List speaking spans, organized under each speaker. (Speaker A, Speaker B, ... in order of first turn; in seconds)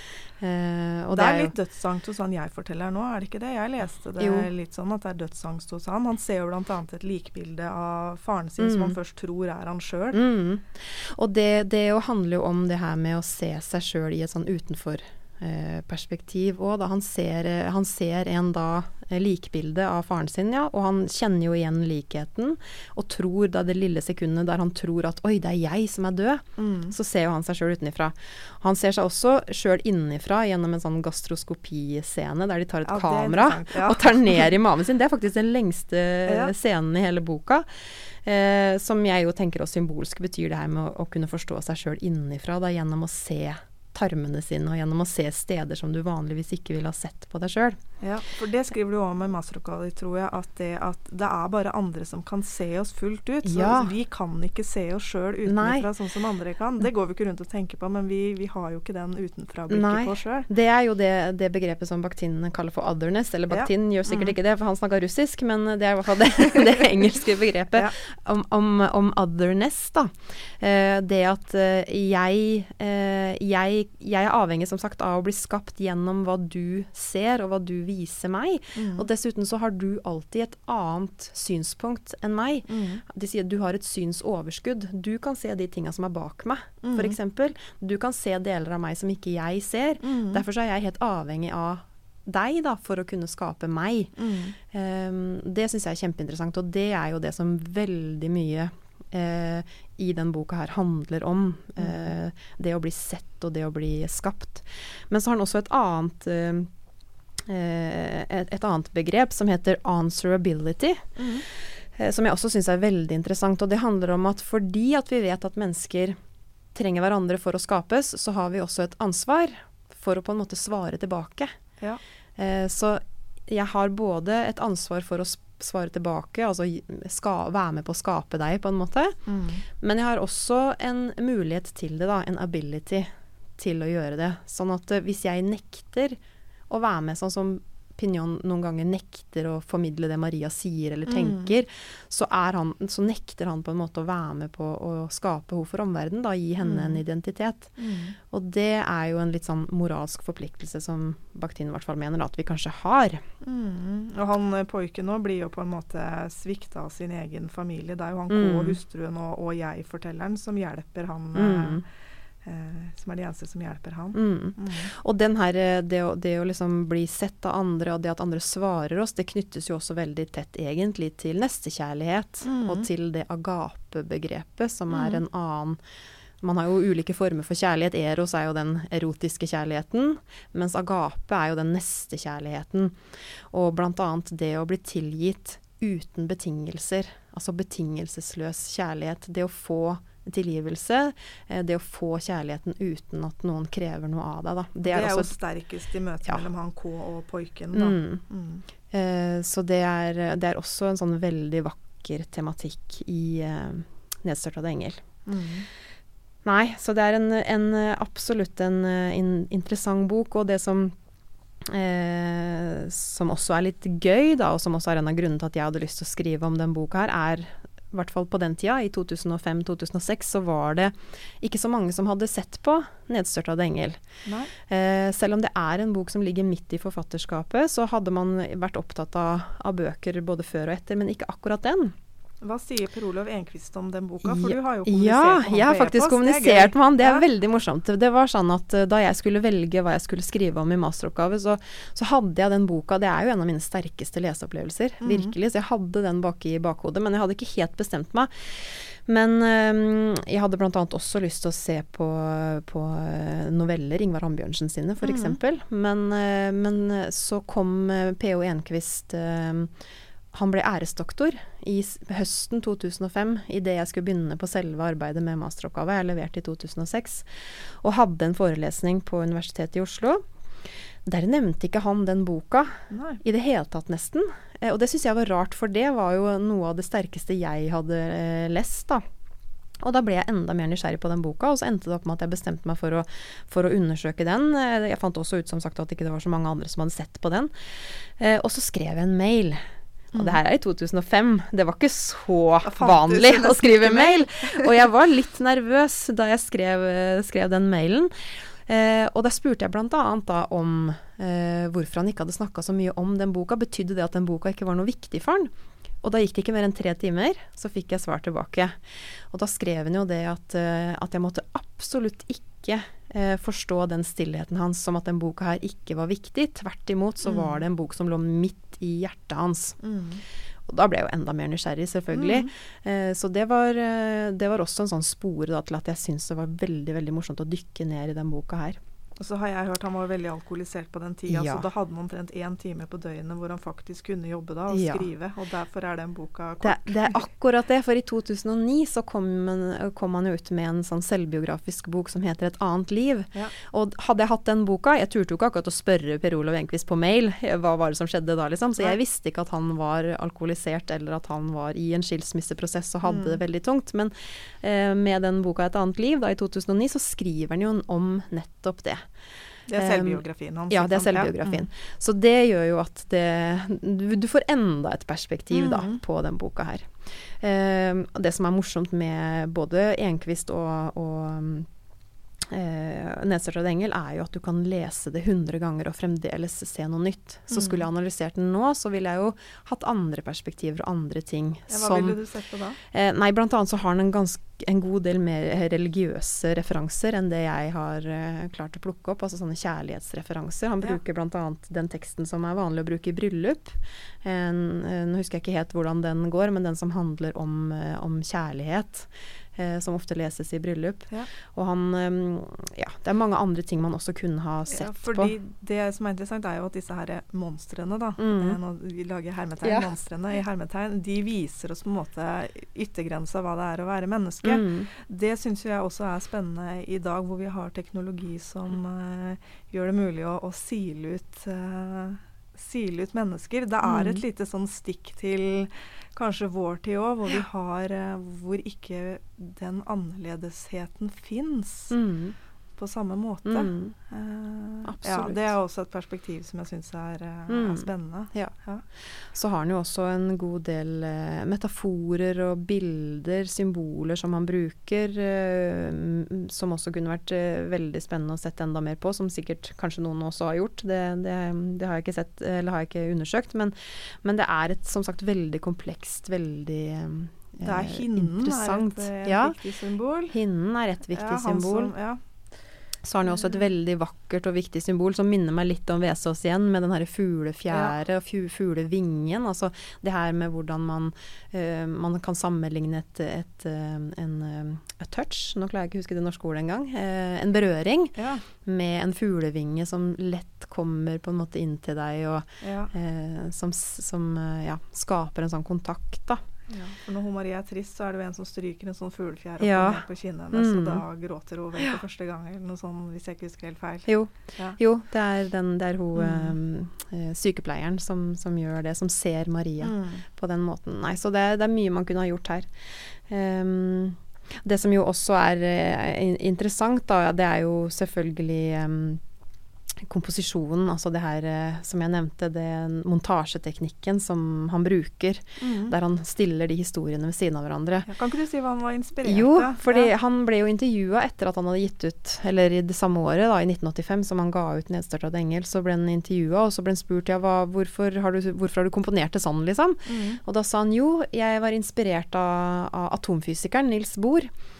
Speaker A: 0.4-1.5, 4.2-4.5, 8.6-8.9, 10.1-47.8, 53.4-53.9, 55.5-55.9, 59.7-94.1, 94.7-106.7, 107.5-116.2, 116.7-121.5, 122.4-129.2, 129.8-136.2, 136.7-147.7, 148.3-153.2, 158.3-158.8, 161.3-161.8, 164.1-175.8, 176.4-183.0, 183.5-195.3, 197.7-198.2, 198.9-205.0, 206.4-210.9, 211.6-224.0, 224.6-231.9, 234.2-259.7, 260.3-270.2, 271.0-279.0, 279.8-289.6, 290.1-305.5, 306.0-319.8, 320.7-328.8, 331.3-331.7, 334.7-335.1, 336.6-359.1, 359.7-371.7, 372.5-382.2, 382.9-405.3, 408.2-408.6, 409.6-409.9, 414.4-414.9, 423.8-424.2, 431.9-432.3, 433.4-433.9, 434.8-435.5, 437.5-438.5, 439.2-459.6, 460.3-461.9, 463.0-486.4, 489.6-491.0, 494.1-502.7, 503.3-509.2, 510.0-518.1, 519.2-534.5
Speaker B: 1.1-10.2, 26.6-26.9, 32.9-34.5, 36.2-36.5, 48.0-60.5, 63.5-64.3, 78.7-79.1, 82.7-83.0, 86.8-87.2, 90.0-90.4, 94.2-94.5, 101.8-102.1, 111.2-111.4, 129.3-129.6, 141.1-141.5, 146.6-147.0, 147.8-148.2, 153.4-161.8, 162.4-164.9, 172.4-172.9, 174.9-175.2, 194.8-198.6, 205.2-205.7, 224.2-224.5, 232.4-237.2, 245.0-245.3, 255.0-255.4, 272.9-273.2, 290.1-290.4, 292.6-294.7, 317.2-317.6, 319.8-320.2, 322.1-322.5, 329.2-337.2, 353.0-353.4, 359.7-361.6, 365.5-366.0, 377.5-377.8, 381.7-382.8, 404.7-431.9, 432.8-438.8, 457.6-460.4, 461.1-462.2, 463.2-463.6, 467.7-467.9, 478.1-478.4, 482.6-482.9, 486.7-494.8, 496.1-496.6, 499.8-500.2, 515.6-515.9, 518.0-520.1, 530.0-530.4